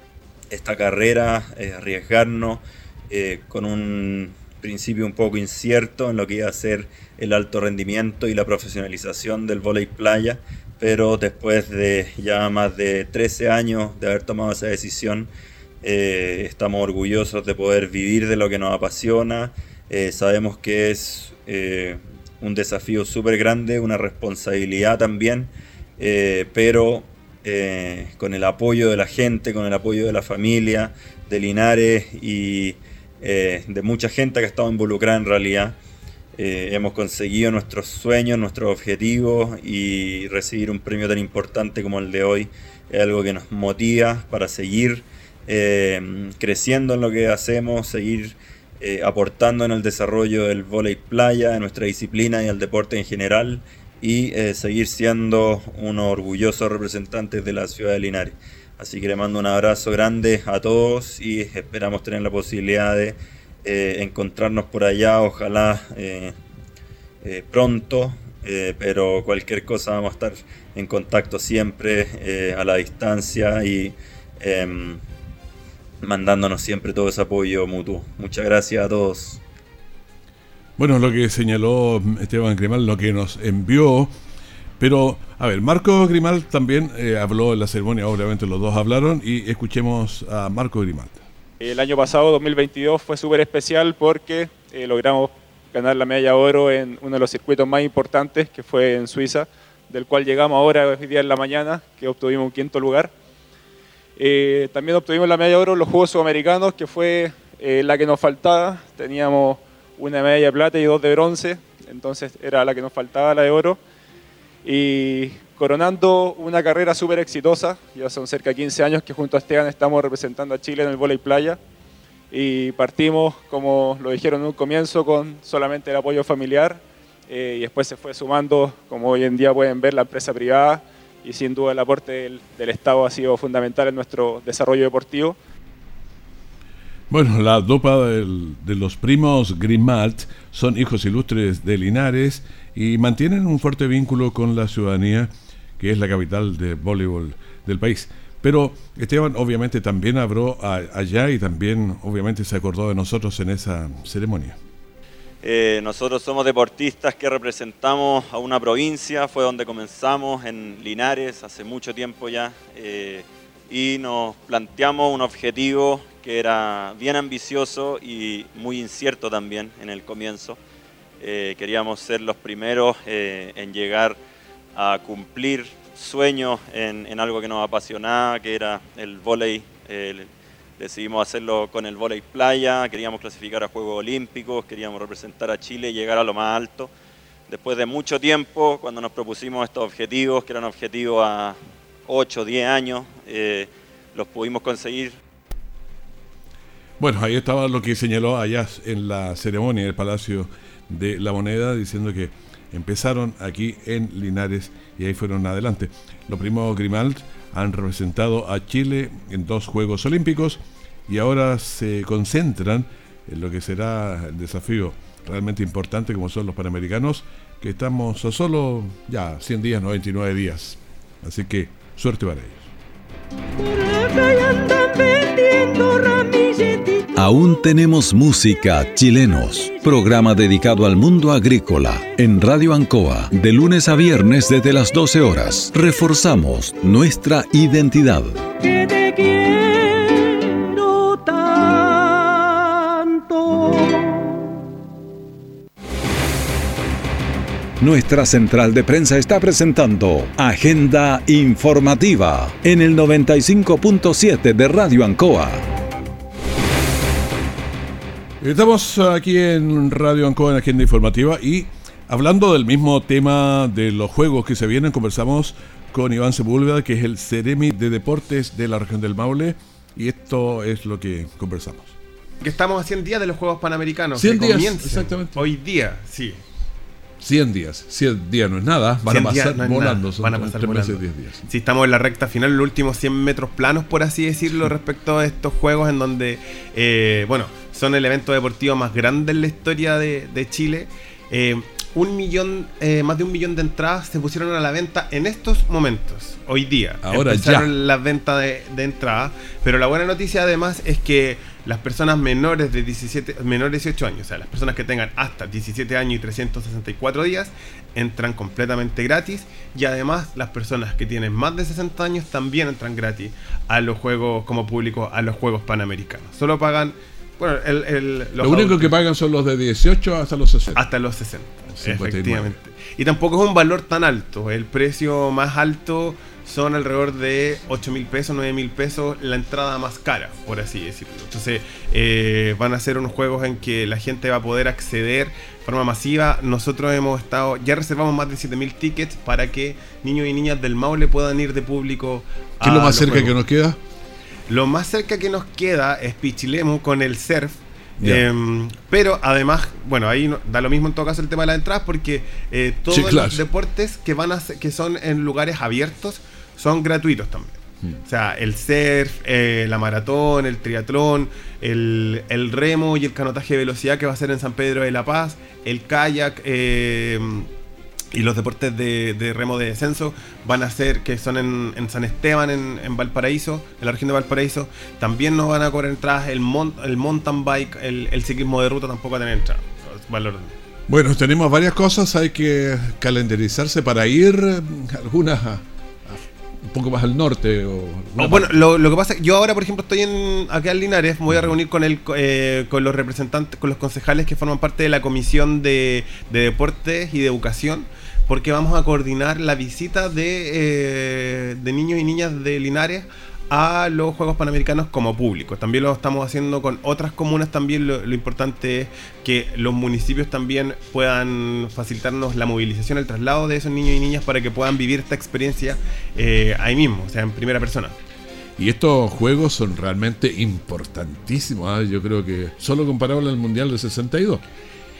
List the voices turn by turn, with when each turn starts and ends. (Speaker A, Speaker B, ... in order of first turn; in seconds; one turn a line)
Speaker A: 0.5-15.3
Speaker A: 15.8-35.8
Speaker A: 36.4-66.4
Speaker A: 67.2-75.0
Speaker A: 76.0-79.4
Speaker B: 80.8-84.1
Speaker B: 84.8-91.2
Speaker C: 91.6-103.1
Speaker C: 104.2-113.8
Speaker C: 114.6-121.6
Speaker C: 122.3-135.4
Speaker B: 137.1-154.6
Speaker A: 155.4-170.6
Speaker A: 171.2-174.2
Speaker A: 174.8-186.9
Speaker A: 187.5-195.2
Speaker B: 197.0-222.7
Speaker D: 227.1-238.4
Speaker D: 247.8-255.7
Speaker B: 258.4-272.0
Speaker E: 272.4-276.4
Speaker B: 274.1-275.5
Speaker B: 277.2-281.4
Speaker E: 279.1-318.9
Speaker B: 297.0-297.7
Speaker B: 318.4-320.8
Speaker E: 320.8-343.4
Speaker B: 321.7-322.6
Speaker B: 342.6-343.8
Speaker E: 344.5-367.5
Speaker B: 348.0-348.2
Speaker B: 352.9-353.4
Speaker E: 368.1-380.5
Speaker B: 380.9-388.6
Speaker E: 388.2-417.9
Speaker B: 418.6-424.4